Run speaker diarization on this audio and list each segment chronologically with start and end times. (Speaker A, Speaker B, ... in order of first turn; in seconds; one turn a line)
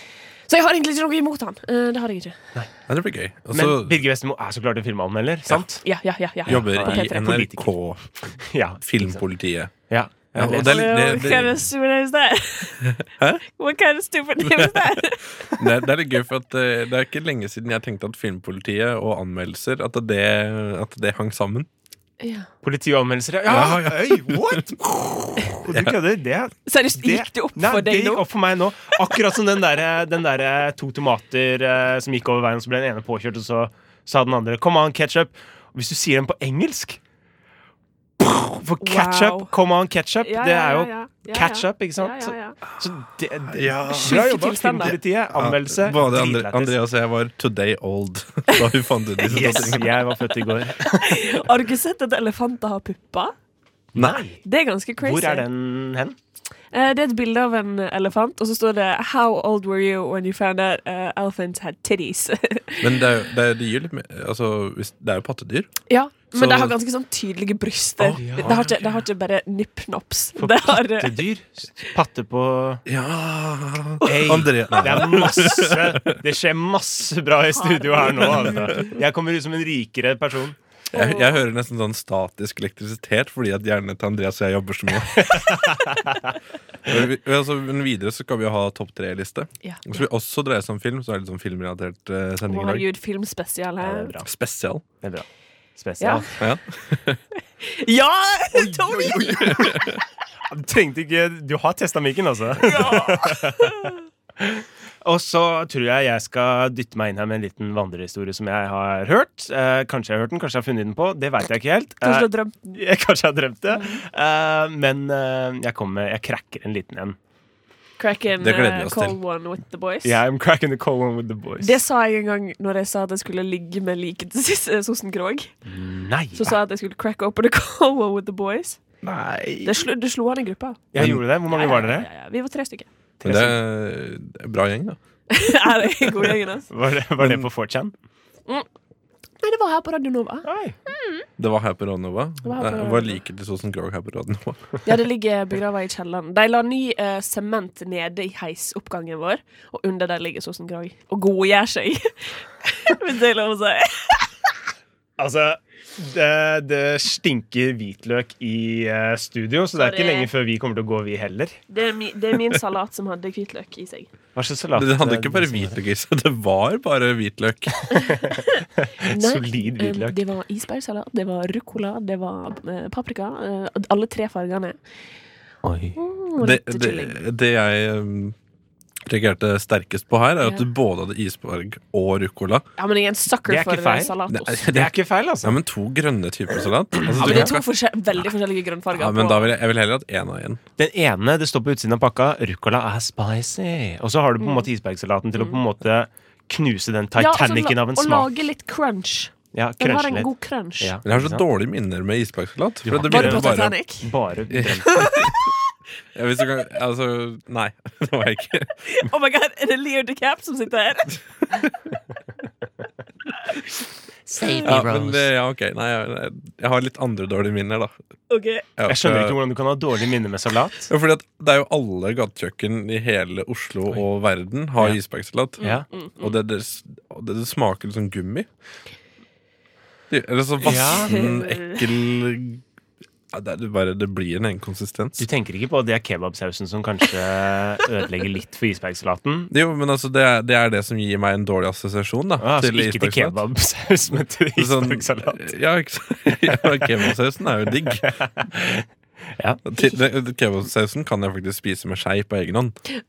Speaker A: 0.5-2.4
Speaker B: 2.9-4.0
Speaker C: 3.5-5.8
Speaker A: 5.8-7.4
Speaker C: 6.5-7.7
Speaker B: 6.5-8.0
Speaker C: 8.5-9.2
Speaker B: 8.8-11.6
Speaker C: 9.9-11.3
Speaker A: 10.6-12.9
Speaker B: 12.8-13.4
Speaker A: 13.4-15.6
Speaker B: 14.4-21.7
Speaker A: 22.2-22.5
Speaker C: 22.6-24.8
Speaker B: 23.5-26.0
Speaker C: 25.6-37.0
Speaker A: 26.7-28.2
Speaker C: 38.2-46.8
Speaker A: 38.8-39.5
Speaker A: 40.2-42.6
Speaker B: 43.5-44.3
Speaker A: 43.9-44.9
Speaker B: 45.3-50.0
Speaker C: 49.3-51.2
Speaker A: 50.2-53.3
Speaker C: 53.9-54.4
Speaker B: 54.0-54.2
Speaker A: 54.4-55.5
Speaker C: 55.0-56.2
Speaker A: 56.7-63.0
Speaker B: 62.8-65.7
Speaker A: 65.9-71.3
Speaker B: 66.3-66.8
Speaker B: 68.0-68.6
Speaker C: 68.2-68.9
Speaker C: 70.4-72.8
Speaker B: 72.9-76.2
Speaker C: 74.0-80.6
Speaker A: 77.5-78.9
Speaker A: 80.9-81.4
Speaker B: 80.9-85.6
Speaker C: 85.2-86.0
Speaker B: 86.9-92.9
Speaker A: 92.5-94.1
Speaker C: 93.8-94.3
Speaker B: 94.2-94.8
Speaker C: 95.0-96.3
Speaker B: 96.4-97.2
Speaker A: 97.6-99.9
Speaker B: 99.1-100.0
Speaker C: 100.5-103.7
Speaker A: 102.6-104.0
Speaker C: 104.4-117.2
Speaker A: 112.0-112.8
Speaker A: 113.7-114.0
Speaker A: 118.0-120.2
Speaker B: 118.4-119.2
Speaker C: 120.0-121.7
Speaker A: 121.6-125.5
Speaker C: 125.7-126.6
Speaker A: 126.3-128.8
Speaker B: 129.0-129.8
Speaker A: 129.6-130.8
Speaker C: 130.9-132.1
Speaker B: 131.0-131.2
Speaker A: 131.5-132.9
Speaker C: 133.2-133.6
Speaker B: 133.2-135.0
Speaker A: 135.3-136.7
Speaker C: 136.7-137.9
Speaker B: 137.2-137.5
Speaker A: 139.4-141.3
Speaker C: 140.5-140.8
Speaker B: 141.4-144.8
Speaker A: 142.4-143.2
Speaker A: 144.8-154.3
Speaker C: 155.2-161.6
Speaker A: 159.8-160.3
Speaker A: 161.7-164.1
Speaker C: 164.3-165.8
Speaker B: 164.8-167.8
Speaker A: 167.9-174.8
Speaker C: 168.0-170.2
Speaker C: 175.6-176.0
Speaker A: 176.0-177.2
Speaker B: 176.4-178.4
Speaker B: 179.0-182.7
Speaker A: 182.8-184.7
Speaker C: 183.5-185.6
Speaker B: 184.3-187.7
Speaker C: 187.1-187.5
Speaker A: 187.2-189.5
Speaker B: 188.9-190.6
Speaker C: 190.8-198.3
Speaker A: 194.4-194.7
Speaker A: 197.2-201.0
Speaker C: 199.5-200.3
Speaker C: 200.8-201.4
Speaker B: 201.1-203.8
Speaker C: 202.9-204.9
Speaker A: 203.1-204.1
Speaker B: 204.5-205.5
Speaker A: 204.9-205.6
Speaker B: 206.2-208.9
Speaker A: 208.9-211.2
Speaker C: 214.3-215.2
Speaker B: 214.6-217.9
Speaker A: 218.3-218.7
Speaker B: 218.8-219.4
Speaker C: 218.9-220.9
Speaker B: 220.9-228.5
Speaker A: 225.6-226.4
Speaker C: 225.6-225.9
Speaker B: 230.1-232.6
Speaker C: 230.6-231.2
Speaker A: 231.0-231.8
Speaker B: 233.3-235.3
Speaker C: 235.2-239.5
Speaker B: 239.5-243.4
Speaker C: 242.4-245.5
Speaker B: 244.6-248.1
Speaker C: 247.9-248.9
Speaker B: 249.7-252.8